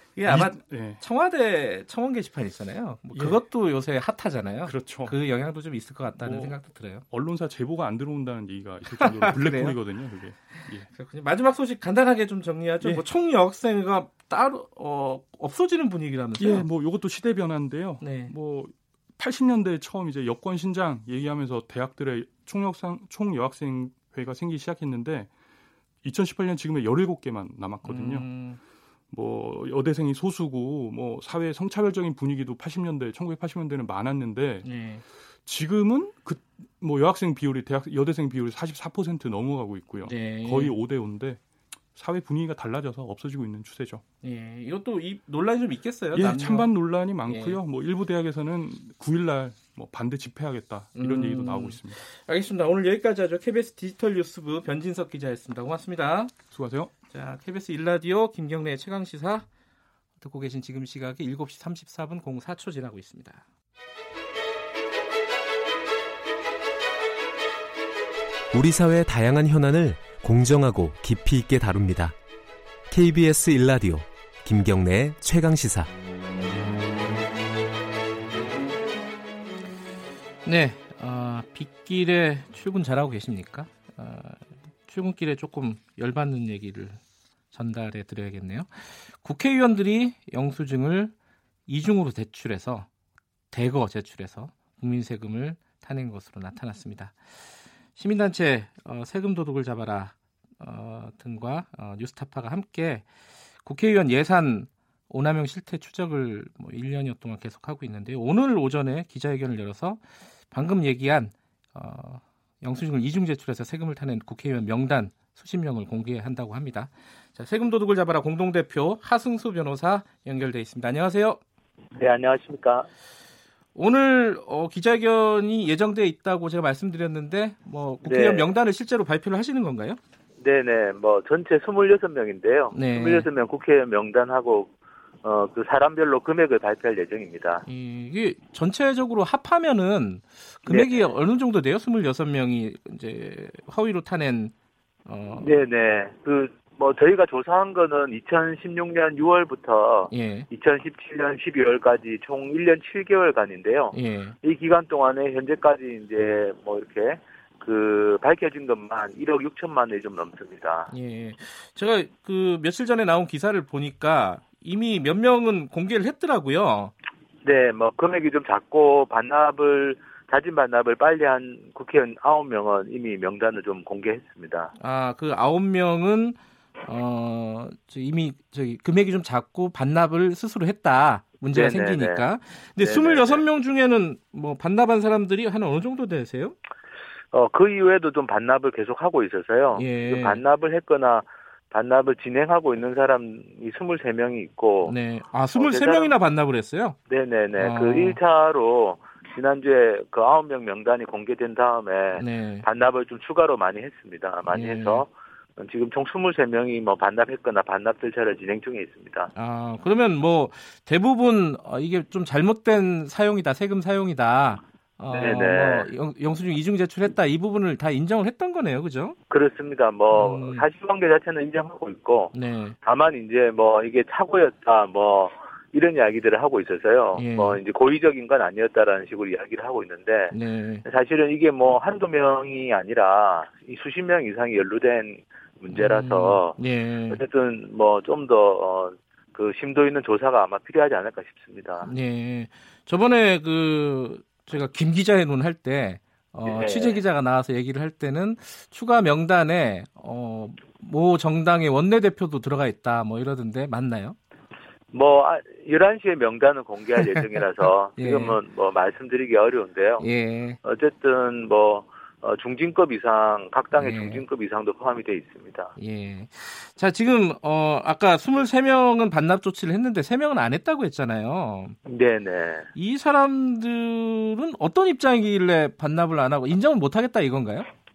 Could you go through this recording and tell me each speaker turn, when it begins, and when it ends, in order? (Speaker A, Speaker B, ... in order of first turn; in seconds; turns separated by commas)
Speaker A: 0.1-7.0, Speaker B: 0.2-1.0, Speaker B: 3.1-3.4, Speaker B: 4.7-5.2, Speaker B: 6.2-10.9, Speaker A: 9.0-9.8, Speaker A: 10.5-16.6, Speaker B: 16.4-25.3, Speaker A: 18.0-18.3, Speaker B: 26.0-28.3, Speaker A: 27.8-28.6, Speaker B: 29.1-34.7, Speaker A: 34.6-35.0, Speaker B: 35.4-41.4, Speaker A: 40.0-40.7, Speaker B: 41.9-44.0, Speaker A: 44.2-46.7, Speaker B: 46.1-52.0, Speaker A: 47.3-47.6, Speaker A: 51.0-56.4, Speaker B: 56.5-56.9, Speaker A: 57.1-59.5, Speaker A: 60.2-63.4, Speaker C: 68.5-72.2, Speaker C: 72.9-75.9, Speaker A: 80.4-87.0, Speaker A: 87.5-91.1, Speaker A: 91.7-92.9, Speaker A: 93.5-97.1, Speaker A: 98.0-103.0, Speaker A: 103.6-121.4, Speaker D: 122.0-122.9, Speaker A: 123.7-130.0, Speaker D: 128.0-128.5, Speaker D: 130.4-134.7, Speaker A: 132.7-133.3, Speaker D: 135.2-137.6, Speaker A: 137.7-144.5, Speaker D: 140.7-141.1, Speaker A: 145.1-145.5, Speaker D: 145.4-160.9, Speaker A: 150.1-150.5, Speaker A: 153.9-154.3, Speaker A: 160.9-166.9, Speaker D: 167.4-174.7, Speaker A: 174.8-186.6, Speaker D: 181.5-182.2, Speaker D: 182.8-183.4, Speaker D: 187.3-194.9, Speaker A: 189.7-190.4, Speaker A: 194.8-196.9, Speaker D: 195.5-196.1, Speaker D: 197.1-209.3, Speaker A: 197.6-198.2, Speaker A: 202.2-202.7, Speaker A: 204.5-205.0, Speaker A: 209.3-219.2, Speaker D: 215.1-215.9, Speaker D: 219.3-236.6, Speaker A: 220.1-220.6, Speaker A: 222.3-222.8, Speaker A: 227.1-227.6, Speaker A: 230.3-230.8, Speaker A: 235.7-237.2, Speaker D: 237.1-241.9, Speaker A: 241.8-254.2, Speaker D: 246.4-247.0, Speaker D: 254.9-260.1, Speaker A: 258.0-258.4, Speaker A: 260.0-260.6, Speaker D: 260.6-265.7, Speaker A: 263.8-264.2, Speaker A: 265.8-271.8, Speaker D: 271.9-272.7, Speaker A: 272.7-277.7